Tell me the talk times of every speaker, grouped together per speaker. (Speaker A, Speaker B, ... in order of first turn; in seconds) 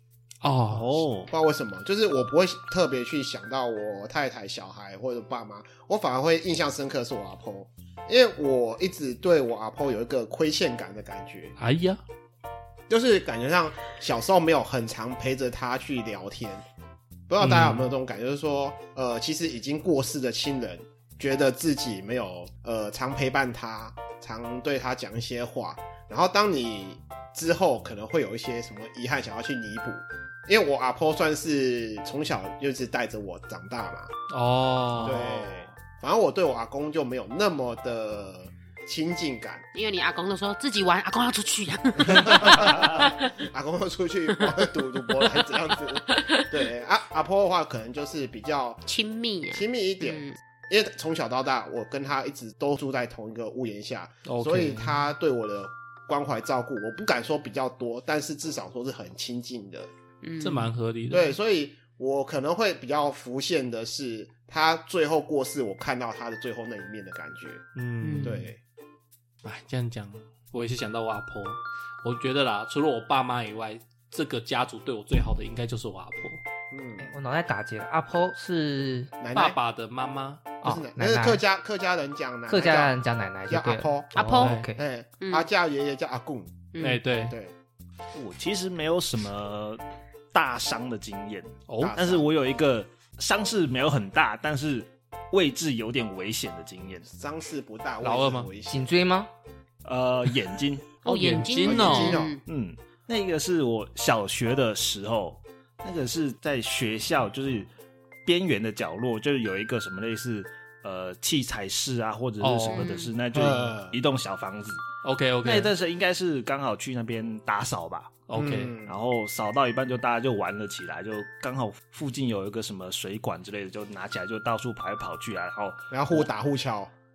Speaker A: 0.4-1.0, 11.6-12.0, 17.4-17.8, 34.3-35.3, 54.3-55.0, 60.4-61.3, 67.8-68.5, 69.4-76.4, 79.3-80.5, 84.2-84.7, 86.8-87.4, 91.7-92.0, 98.0-98.5, 101.0-102.2, 112.4-113.0, 115.0-115.7, 118.3-118.7
Speaker B: 0.7-1.3, 88.1-89.8, 90.3-97.1, 99.8-100.9, 102.5-107.7, 108.2-114.9, 115.4-118.2, 118.8-126.3
Speaker C: 1.3-11.6, 12.9-16.6, 17.3-34.1, 35.0-39.6, 42.0-48.8, 49.5-59.9, 61.1-67.6, 68.2-68.6, 76.7-77.1, 79.2-79.6, 80.6-83.0, 83.5-84.1, 84.8-87.5, 91.8-92.3, 97.1-98.8, 101.7-102.4, 113.3-114.0, 118.3-118.9, 125.9-126.9
Speaker D: 39.7-43.3, 46.1-46.5, 48.9-50.4, 60.2-60.7, 68.0-68.4, 84.2-84.5, 85.2-85.5, 86.7-87.0, 101.0-102.4, 112.7-113.1
Speaker E: 77.0-79.1, 80.6-81.4, 82.5-84.8, 98.7-99.3